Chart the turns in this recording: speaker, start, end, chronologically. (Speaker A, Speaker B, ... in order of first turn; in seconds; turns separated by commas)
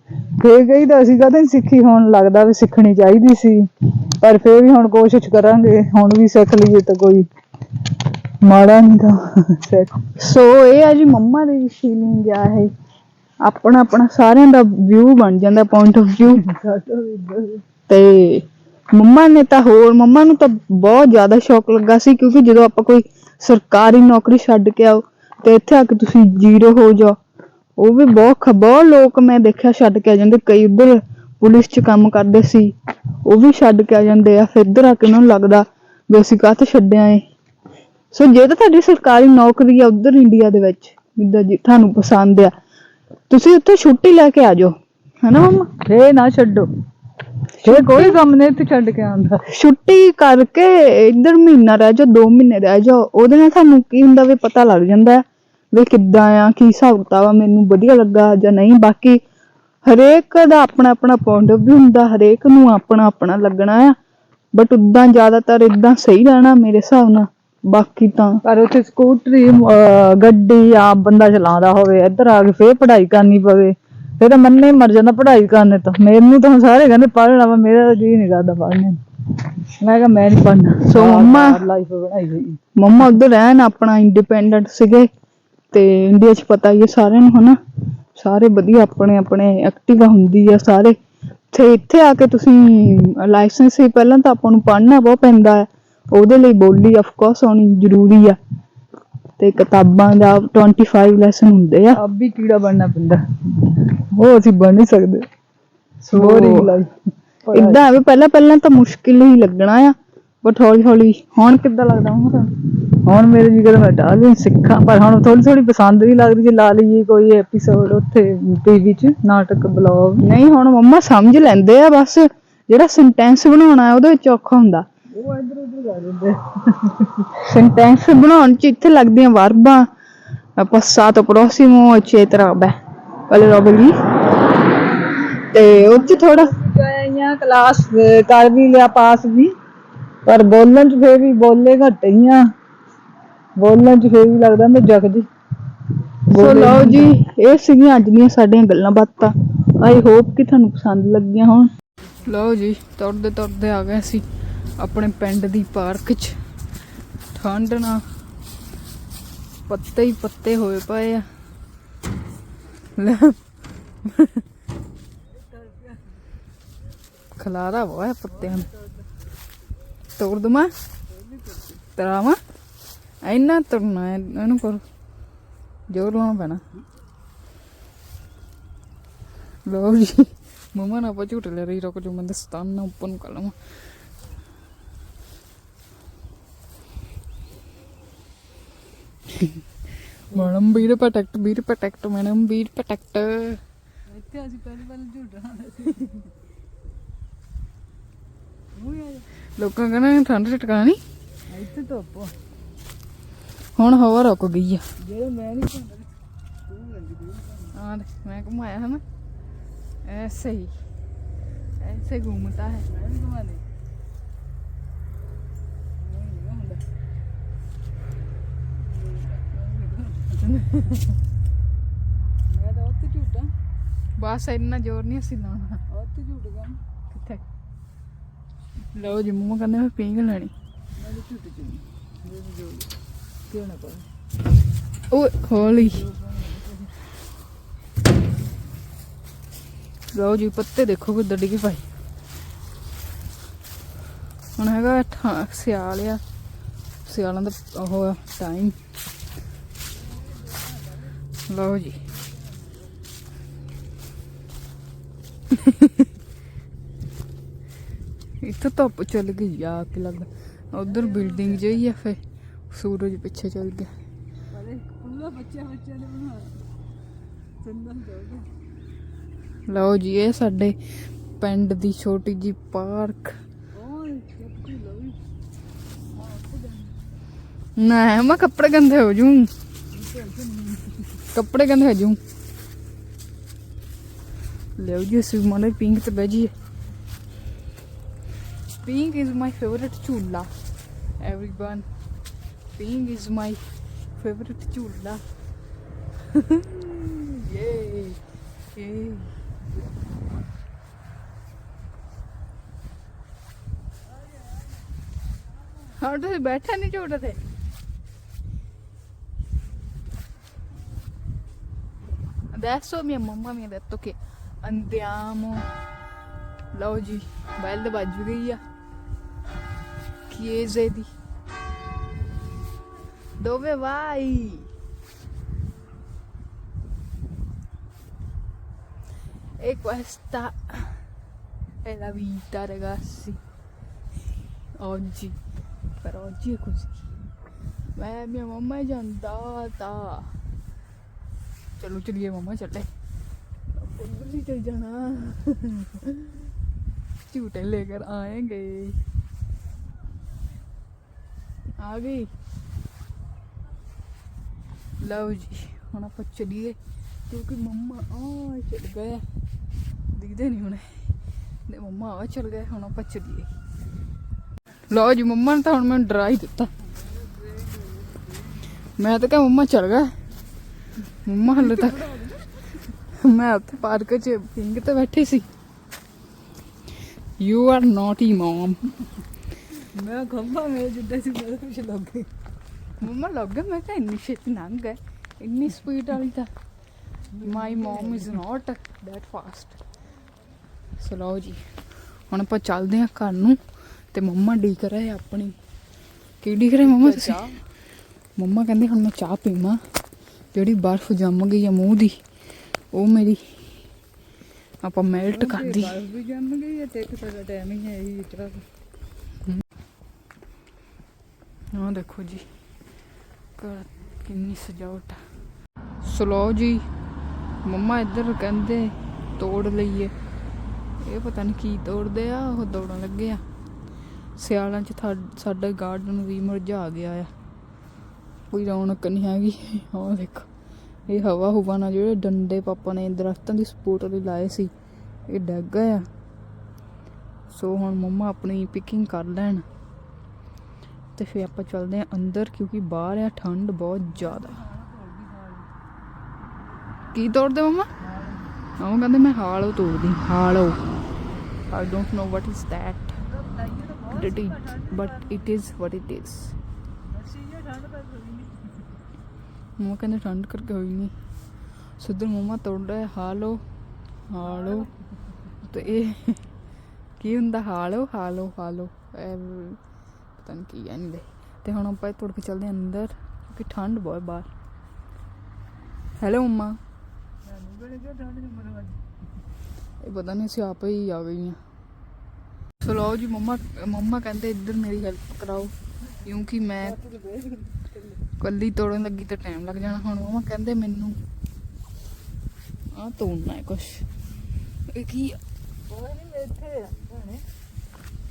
Speaker A: 0.4-3.7, Speaker A: 4.2-7.3, Speaker A: 8.0-9.9, Speaker B: 10.1-12.7, Speaker B: 13.4-16.4, Speaker A: 16.4-17.6, Speaker B: 17.9-27.2, Speaker B: 27.8-32.7, Speaker B: 33.2-37.2, Speaker B: 38.1-42.5, Speaker B: 43.3-45.7, Speaker A: 45.8-46.7, Speaker B: 47.6-48.2, Speaker A: 47.6-49.4, Speaker B: 49.5-59.2, Speaker B: 59.8-64.0, Speaker B: 64.5-68.4, Speaker A: 68.4-82.6, Speaker B: 80.8-81.6, Speaker B: 82.8-85.1, Speaker B: 85.7-87.6, Speaker B: 88.2-91.0, Speaker B: 91.5-98.4, Speaker B: 99.4-102.0, Speaker A: 101.9-105.2, Speaker A: 106.0-106.9, Speaker B: 106.1-106.7, Speaker A: 107.5-107.8, Speaker B: 107.5-112.5, Speaker A: 113.0-120.2, Speaker B: 120.2-124.9, Speaker A: 125.1-127.3, Speaker B: 127.4-129.9, Speaker B: 130.6-132.7, Speaker B: 133.3-133.9, Speaker B: 135.5-136.5, Speaker A: 135.7-139.5, Speaker A: 140.2-142.5, Speaker A: 143.6-145.3, Speaker A: 146.3-147.1, Speaker B: 146.3-151.7, Speaker B: 152.2-154.2, Speaker B: 154.8-156.4, Speaker B: 157.3-158.0, Speaker B: 159.7-161.3, Speaker B: 163.0-163.4, Speaker B: 164.1-164.4, Speaker A: 165.3-166.2, Speaker B: 167.4-168.7, Speaker A: 168.3-169.1, Speaker B: 170.2-170.7, Speaker A: 171.1-171.8, Speaker B: 171.9-172.4, Speaker B: 173.2-174.8, Speaker B: 175.9-176.6, Speaker B: 179.7-183.6, Speaker B: 190.3-193.6, Speaker A: 194.1-196.3, Speaker A: 198.7-199.3, Speaker B: 199.6-201.0, Speaker A: 201.5-202.3, Speaker B: 203.8-204.8, Speaker A: 205.0-206.1, Speaker A: 206.7-207.7, Speaker B: 207.7-209.0, Speaker B: 210.0-210.7, Speaker B: 211.8-212.8, Speaker A: 212.8-213.6, Speaker A: 216.0-216.8, Speaker A: 218.8-220.5, Speaker B: 220.4-221.1, Speaker A: 222.5-223.5, Speaker B: 224.2-225.8, Speaker A: 225.9-226.8, Speaker B: 227.1-227.4, Speaker B: 228.9-230.5, Speaker A: 231.0-232.9, Speaker A: 233.5-234.0, Speaker B: 235.1-236.0, Speaker A: 235.6-236.9, Speaker B: 240.1-241.8, Speaker B: 244.6-246.2, Speaker B: 247.1-248.7, Speaker A: 250.5-250.9, Speaker B: 251.5-252.0, Speaker A: 252.4-252.8, Speaker B: 255.5-256.1, Speaker B: 258.4-262.2, Speaker A: 260.9-261.8, Speaker B: 262.7-263.9, Speaker A: 264.5-266.6, Speaker A: 267.6-268.5, Speaker B: 269.7-270.8, Speaker B: 271.4-273.3, Speaker A: 273.7-275.2, Speaker A: 276.1-276.9, Speaker B: 277.8-279.5, Speaker A: 279.9-281.2, Speaker B: 281.3-282.2, Speaker B: 284.8-286.5, Speaker B: 288.8-290.5, Speaker B: 291.2-291.8, Speaker B: 292.8-293.6, Speaker B: 294.2-295.2, Speaker B: 296.3-298.2, Speaker B: 298.8-299.3, Speaker B: 305.9-307.4, Speaker B: 312.5-315.7, Speaker B: 316.7-318.6, Speaker B: 320.3-321.1, Speaker B: 323.4-324.7, Speaker B: 329.6-331.0, Speaker B: 331.8-333.4, Speaker B: 334.8-335.4, Speaker B: 336.0-337.0, Speaker B: 337.9-340.4, Speaker B: 341.8-342.9, Speaker B: 343.8-346.3, Speaker B: 347.3-349.0, Speaker B: 351.8-352.3, Speaker B: 355.0-356.8, Speaker B: 357.3-359.3, Speaker B: 360.1-361.1, Speaker B: 361.7-363.5, Speaker B: 364.9-366.7, Speaker A: 367.1-368.5, Speaker B: 369.0-370.1, Speaker B: 371.2-372.1, Speaker A: 371.6-372.9, Speaker B: 373.1-375.5, Speaker B: 377.4-378.8, Speaker A: 379.9-382.3, Speaker B: 383.0-386.5, Speaker A: 387.3-388.3, Speaker B: 387.4-389.8, Speaker B: 391.0-391.6, Speaker B: 392.3-393.6, Speaker B: 394.1-395.5, Speaker B: 396.4-397.4, Speaker A: 396.8-397.6, Speaker B: 398.4-399.8, Speaker B: 400.5-402.1, Speaker B: 402.9-403.5, Speaker B: 404.8-405.9, Speaker A: 405.3-408.6, Speaker B: 411.7-412.4, Speaker B: 413.6-415.2, Speaker B: 416.0-416.9, Speaker B: 417.6-420.1, Speaker B: 421.0-423.4, Speaker B: 424.4-427.3, Speaker B: 428.5-430.5, Speaker B: 431.1-434.7, Speaker B: 435.3-436.1, Speaker B: 437.5-439.6, Speaker B: 441.1-444.6, Speaker A: 444.2-445.7, Speaker B: 447.1-447.9, Speaker A: 448.0-448.5, Speaker B: 448.8-450.8, Speaker B: 451.7-453.2, Speaker A: 453.2-455.3, Speaker B: 454.1-456.5, Speaker A: 457.0-458.8, Speaker B: 459.8-461.1, Speaker B: 462.0-463.6, Speaker B: 464.3-464.9, Speaker A: 464.4-464.9, Speaker B: 465.6-466.4, Speaker B: 467.2-469.8, Speaker B: 470.4-474.5, Speaker B: 476.2-476.8, Speaker A: 477.4-479.0, Speaker B: 480.0-481.6, Speaker B: 482.8-485.7, Speaker B: 486.2-487.0, Speaker A: 486.8-488.2, Speaker B: 488.4-491.2, Speaker B: 492.9-494.0, Speaker B: 494.9-495.4, Speaker A: 495.9-497.4